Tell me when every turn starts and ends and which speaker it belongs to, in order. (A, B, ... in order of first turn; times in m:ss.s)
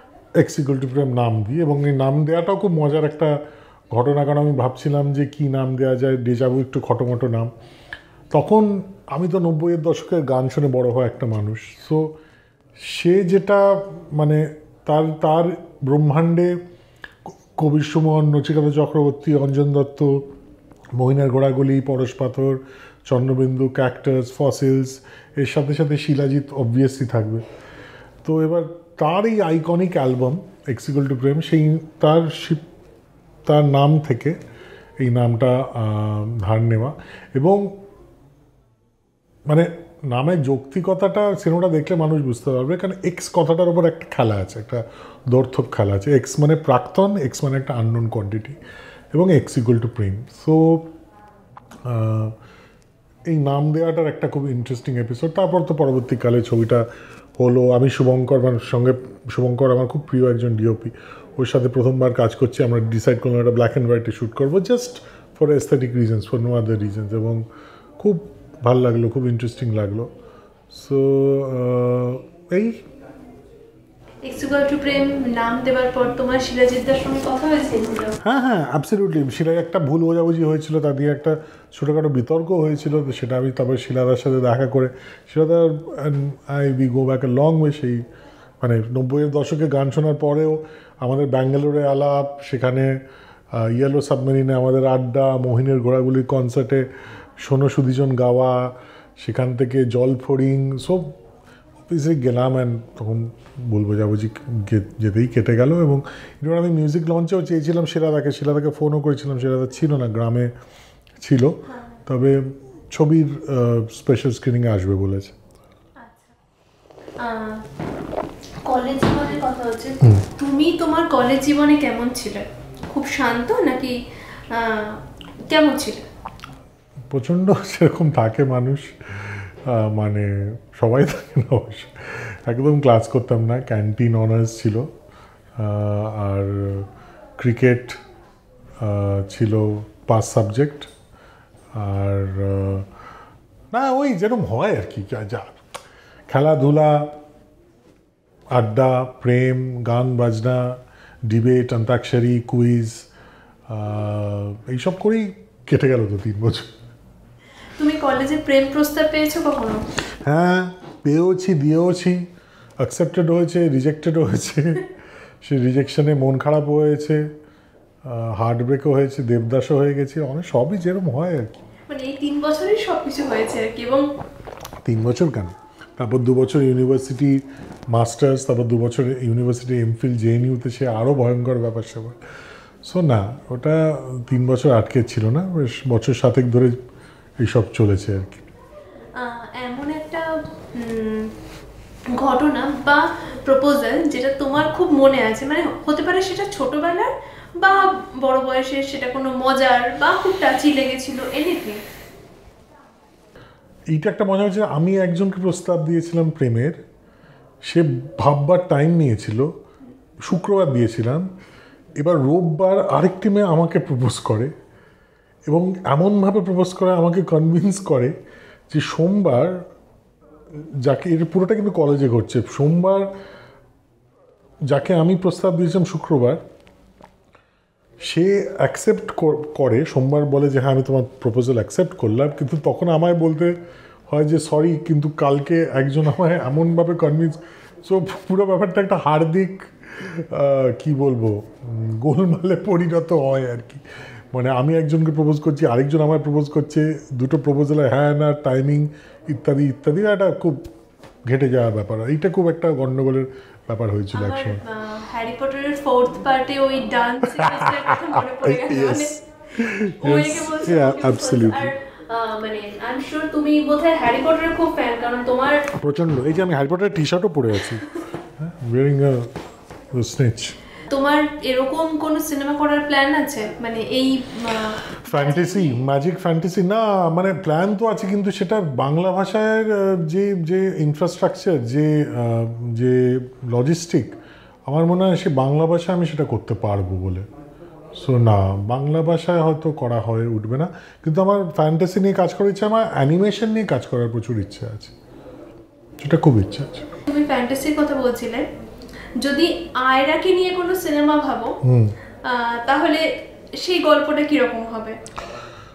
0:00.4-0:03.4 A
0:03.9-0:07.5 A
0:08.3-0:12.1 A
0:12.8-0:16.5 A
0:17.3-0:20.2 A
0:21.0-0:27.4 A
0:28.2-0:32.6 A
0:33.4-0:34.4 A
0:35.0-0:37.8 A
0:39.5-0:48.6 A
0:49.1-0:50.9 A
0:51.8-0:52.3 A
0:53.3-0:56.8 A
0:57.4-1:07.4 A
1:08.0-1:10.1 A
1:10.7-1:12.8 A
1:14.2-1:18.2 B
1:18.2-1:28.0 A
1:28.6-1:33.0 A
1:33.5-1:36.9 A
1:37.4-1:41.1 A
1:41.9-1:50.5 A
1:51.2-1:55.3 A
1:56.0-1:56.3 B
1:57.2-1:57.6 B
1:58.6-2:03.9 B
2:04.5-2:06.0 B
2:07.1-2:14.8 A
2:15.6-2:18.0 A
2:18.8-2:20.9 A
2:21.7-2:22.9 A
2:23.7-2:25.6 A
2:26.3-2:27.2 A
2:28.5-2:33.1 A
2:33.7-2:36.7 A
2:37.8-2:39.8 B
2:40.2-2:42.2 A
2:42.8-2:44.9 A
2:45.4-2:47.3 A
2:48.0-2:51.6 A
2:51.9-2:54.0 B
2:54.8-3:02.2 A
3:02.8-3:06.8 A
3:07.4-3:08.4 A
3:09.2-3:11.3 B
3:12.2-3:21.8 B
3:23.9-3:26.8 A
3:27.6-3:29.5 A
3:30.2-3:31.3 A
3:32.0-3:34.5 A
3:35.5-3:38.1 A
3:38.7-3:39.6 A
3:40.8-3:43.1 A
3:44.7-3:46.4 A
3:48.0-3:53.6 A
3:54.1-4:10.6 A
4:11.3-4:14.6 A
4:14.1-4:19.1 B
4:17.2-4:21.7 A
4:20.0-4:25.7 B
4:25.8-4:29.3 A
4:29.9-4:30.5 A
4:30.9-4:35.8 B
4:35.0-4:44.1 A
4:44.7-4:47.2 A
4:48.0-4:54.9 A
4:56.0-4:56.9 A
4:57.1-4:58.5 B
4:59.2-5:01.6 B
5:01.6-5:01.9 A
5:02.2-5:03.0 B
5:03.6-5:04.9 B